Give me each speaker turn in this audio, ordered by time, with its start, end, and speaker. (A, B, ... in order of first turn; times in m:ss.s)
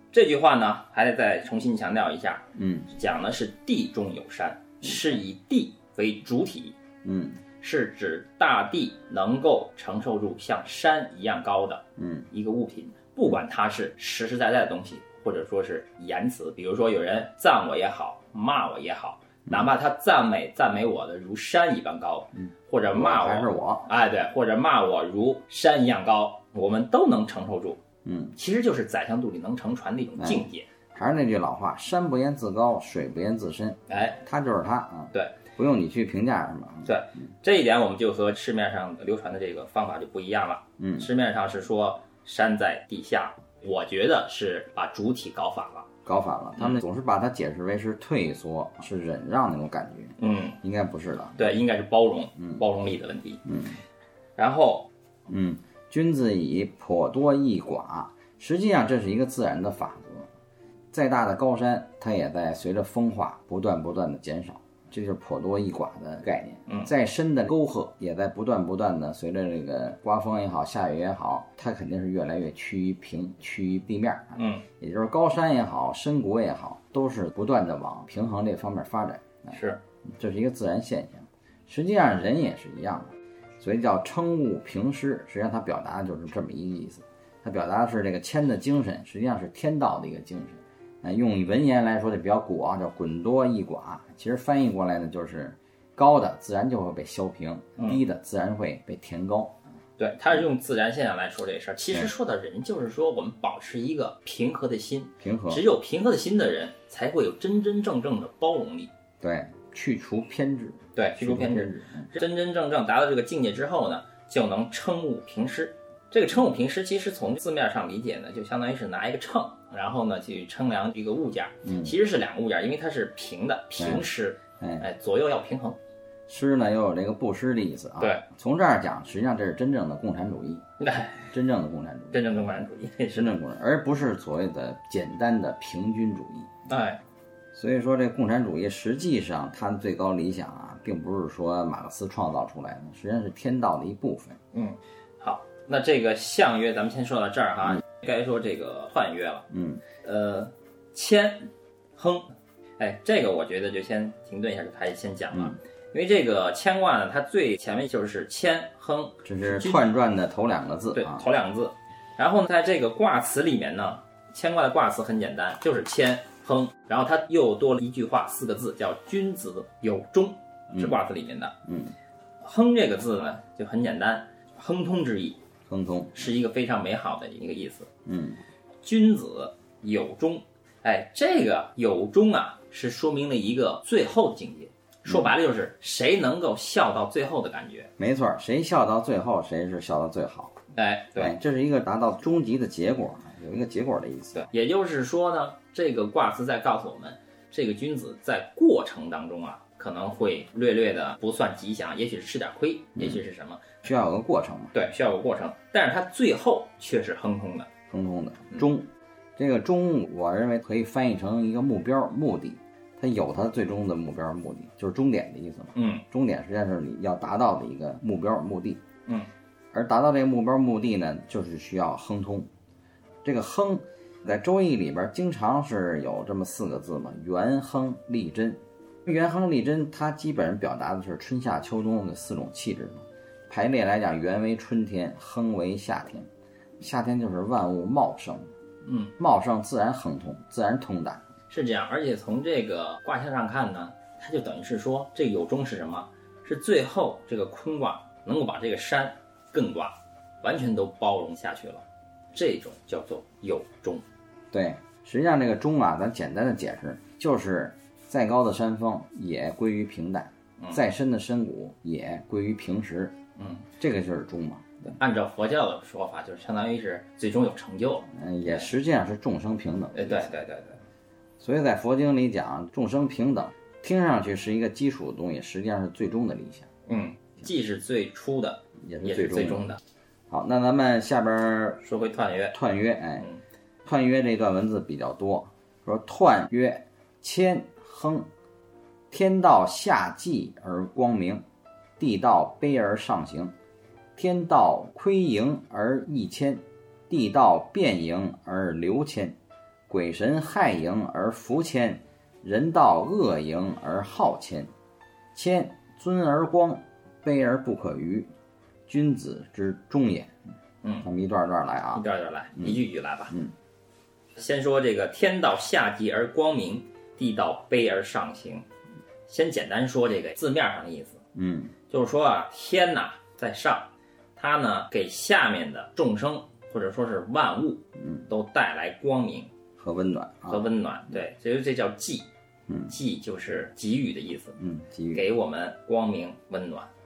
0:00.1-0:06.8 A
0:02.5-0:02.9 B
0:07.0-0:07.4 B
0:07.6-0:27.8 A
0:12.0-0:12.3 B
0:22.4-0:23.9 B
0:28.0-0:28.4 B
0:28.4-0:30.7 A
0:30.2-0:36.9 B
0:33.9-0:34.2 A
0:36.8-0:45.9 A
0:40.8-0:41.1 B
0:46.0-0:51.4 B
0:50.2-0:50.6 A
0:51.4-0:53.5 A
0:53.4-0:53.8 B
0:54.4-0:54.9 A
0:55.3-1:00.3 B
1:00.9-1:19.5 B
1:06.7-1:06.9 A
1:14.4-1:14.6 A
1:19.5-1:19.8 A
1:20.0-1:39.6 B
1:40.0-1:48.9 A
1:45.2-1:45.6 B
1:49.2-1:52.1 B
1:51.0-2:05.8 A
2:01.6-2:02.0 B
2:03.8-2:04.0 B
2:04.6-2:04.8 B
2:06.3-2:10.6 B
2:08.0-2:08.2 A
2:10.8-2:11.3 A
2:11.3-2:12.2 B
2:12.1-2:13.3 A
2:13.1-2:16.5 B
2:16.7-2:17.0 A
2:17.5-2:24.4 B
2:24.5-2:39.8 A
2:29.5-2:29.8 B
2:39.2-2:41.2 B
2:40.9-2:51.5 A
2:51.6-2:51.9 B
2:52.4-2:55.4 A
2:55.7-2:56.2 B
2:56.1-2:57.9 A
2:58.0-2:58.4 B
2:58.8-3:07.9 A
3:05.1-3:05.3 B
3:08.0-3:10.6 B
3:10.7-3:11.3 A
3:11.2-3:14.4 B
3:14.3-3:23.8 A
3:23.8-3:24.8 B
3:24.7-3:27.7 A
3:27.9-3:38.8 B
3:35.7-3:36.0 A
3:39.7-3:42.5 B
3:43.2-3:56.3 B
3:56.8-3:58.5 B
3:58.8-3:59.1 A
3:59.2-4:01.2 B
4:01.5-4:14.0 A
4:14.5-4:23.2 B
4:23.4-4:23.6 A
4:23.8-4:24.9 B
4:24.9-4:28.6 A
4:28.1-4:30.3 B
4:29.9-4:30.8 A
4:31.4-4:36.7 B
4:36.9-4:39.8 A
4:38.8-4:39.7 B
4:40.3-4:41.8 B
4:41.8-4:42.6 A
4:42.5-4:43.3 B
4:43.8-4:48.3 B
4:49.1-4:51.4 B
4:52.0-4:53.5 B
4:54.2-4:59.4 B
4:59.9-5:04.7 B
5:05.3-5:08.3 B
5:08.9-5:10.3 B
5:11.0-5:12.0 B
5:11.9-5:13.4 A
5:14.4-5:18.6 A
5:19.3-5:21.2 A
5:21.3-5:21.7 B
5:21.9-5:29.5 A
5:28.0-5:28.3 B
5:29.8-5:30.7 B
5:30.5-5:32.3 A
5:32.7-5:32.9 B
5:32.9-5:34.6 A
5:34.6-5:35.3 B
5:35.1-5:36.9 A